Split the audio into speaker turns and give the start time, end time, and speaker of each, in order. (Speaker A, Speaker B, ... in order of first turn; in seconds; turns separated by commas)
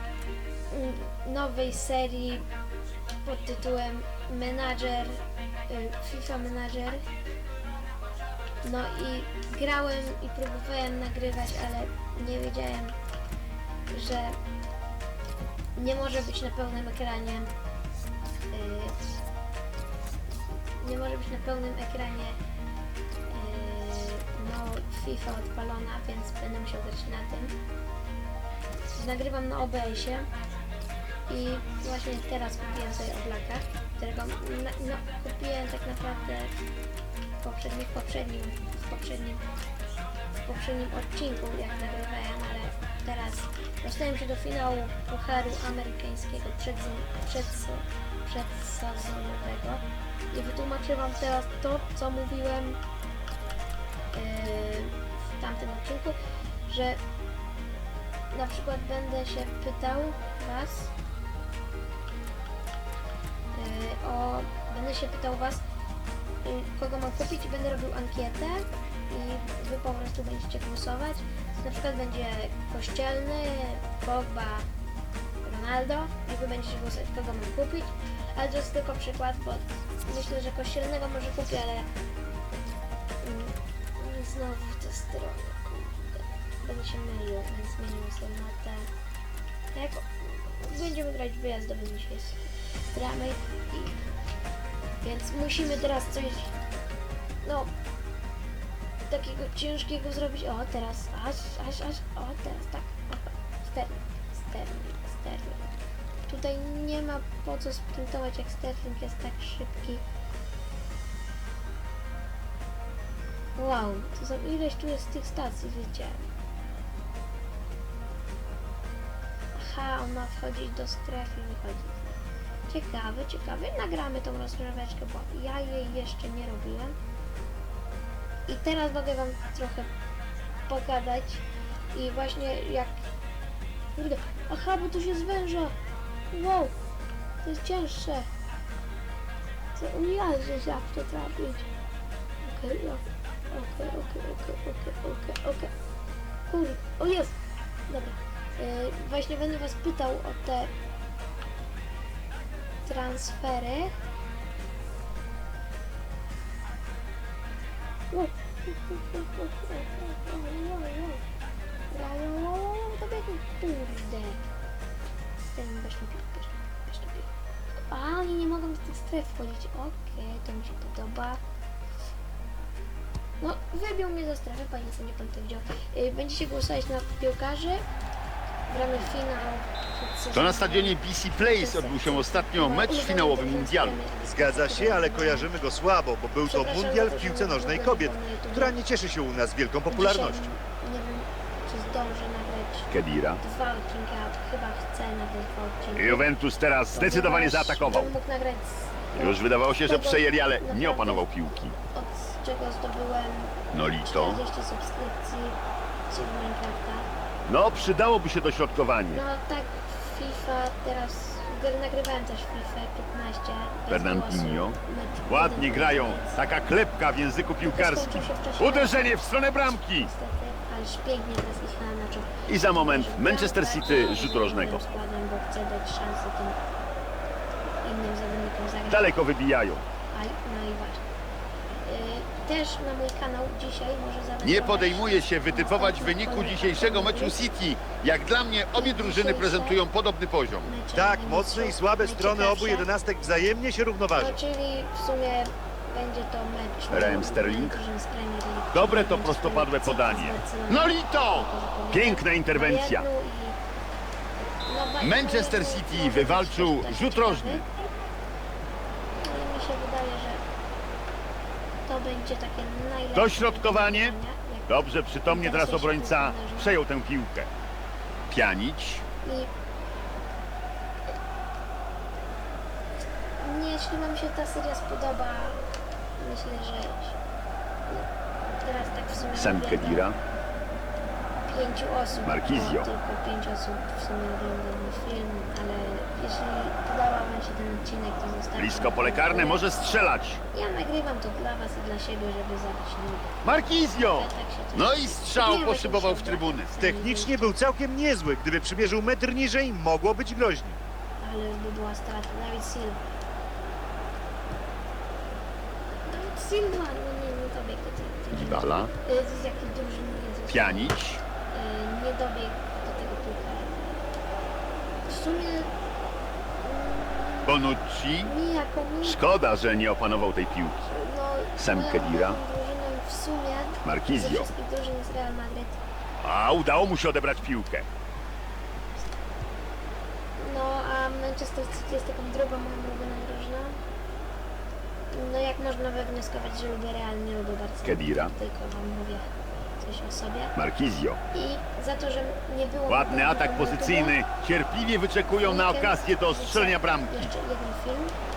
Speaker A: 0.7-2.5, Speaker A: 3.2-7.0, Speaker A: 8.6-12.9, Speaker A: 13.9-14.4, Speaker A: 15.7-17.5, Speaker A: 18.5-18.9, Speaker A: 20.8-22.4, Speaker A: 23.3-27.5, Speaker A: 28.9-30.3, Speaker A: 31.3-36.5, Speaker A: 37.4-39.4, Speaker A: 40.4-52.8, Speaker A: 54.1-56.2, Speaker A: 56.7-57.0, Speaker A: 58.3-60.9, Speaker A: 63.5-65.6, Speaker A: 66.4-74.7, Speaker A: 75.4-81.9, Speaker A: 83.2-88.9, Speaker A: 89.7-94.0, Speaker A: 95.0-96.5, Speaker A: 97.4-97.7, Speaker A: 99.1-105.7, Speaker A: 106.3-110.0, Speaker A: 113.6-116.2, Speaker A: 119.5-122.0, Speaker A: 122.7-126.9, Speaker A: 128.5-129.9, Speaker A: 130.7-132.9, Speaker A: 133.9-135.7, Speaker A: 136.3-136.7, Speaker A: 137.4-138.2, Speaker A: 139.7-141.7, Speaker A: 142.4-145.7, Speaker A: 146.5-147.3, Speaker A: 147.9-150.7, Speaker A: 152.8-153.9, Speaker A: 158.1-161.2, Speaker A: 161.9-164.4, Speaker A: 165.4-167.3, Speaker A: 167.9-171.4, Speaker A: 173.4-177.8, Speaker A: 178.7-185.5, Speaker B: 180.3-184.0, Speaker C: 184.2-190.4, Speaker A: 186.4-188.8, Speaker A: 189.9-192.9, Speaker B: 192.9-193.4, Speaker A: 193.4-196.3, Speaker B: 195.9-198.1, Speaker A: 196.9-205.6, Speaker B: 199.1-201.8, Speaker B: 203.7-204.4, Speaker A: 206.1-207.1, Speaker B: 207.5-209.2, Speaker A: 209.1-216.4, Speaker B: 213.9-220.1, Speaker A: 217.6-219.1, Speaker A: 220.0-226.6, Speaker B: 222.5-224.8, Speaker A: 227.8-229.2, Speaker B: 228.9-229.8, Speaker A: 230.1-231.0, Speaker A: 231.8-237.5, Speaker B: 234.4-240.7, Speaker A: 238.7-239.8, Speaker A: 240.6-242.9, Speaker C: 240.9-244.4, Speaker A: 244.1-253.6, Speaker B: 246.9-247.8, Speaker B: 248.7-253.1, Speaker A: 254.6-257.6, Speaker B: 255.0-257.6, Speaker A: 259.2-260.4, Speaker A: 261.9-266.8, Speaker B: 263.1-264.1, Speaker B: 264.7-267.5, Speaker B: 268.3-269.0, Speaker A: 269.2-269.5, Speaker A: 273.4-275.6, Speaker A: 276.2-277.2, Speaker A: 278.6-280.1, Speaker B: 279.3-280.2, Speaker A: 281.4-289.7, Speaker B: 282.2-282.9, Speaker B: 288.6-290.4, Speaker A: 290.5-293.3, Speaker B: 293.4-296.7, Speaker A: 294.0-297.6, Speaker C: 296.8-300.8, Speaker A: 301.2-303.0, Speaker A: 306.1-310.9, Speaker B: 308.3-308.9, Speaker B: 310.5-311.2, Speaker A: 311.5-314.0, Speaker A: 315.1-315.7, Speaker A: 316.6-317.6, Speaker B: 317.4-318.3, Speaker A: 318.2-319.2, Speaker B: 319.0-320.9, Speaker A: 320.9-325.8, Speaker B: 321.6-322.4, Speaker B: 323.8-324.5, Speaker B: 326.2-327.9, Speaker A: 330.4-333.8, Speaker A: 335.1-340.5, Speaker B: 337.8-338.3, Speaker B: 340.6-341.2, Speaker A: 341.3-344.2, Speaker B: 342.9-347.3, Speaker A: 345.3-348.1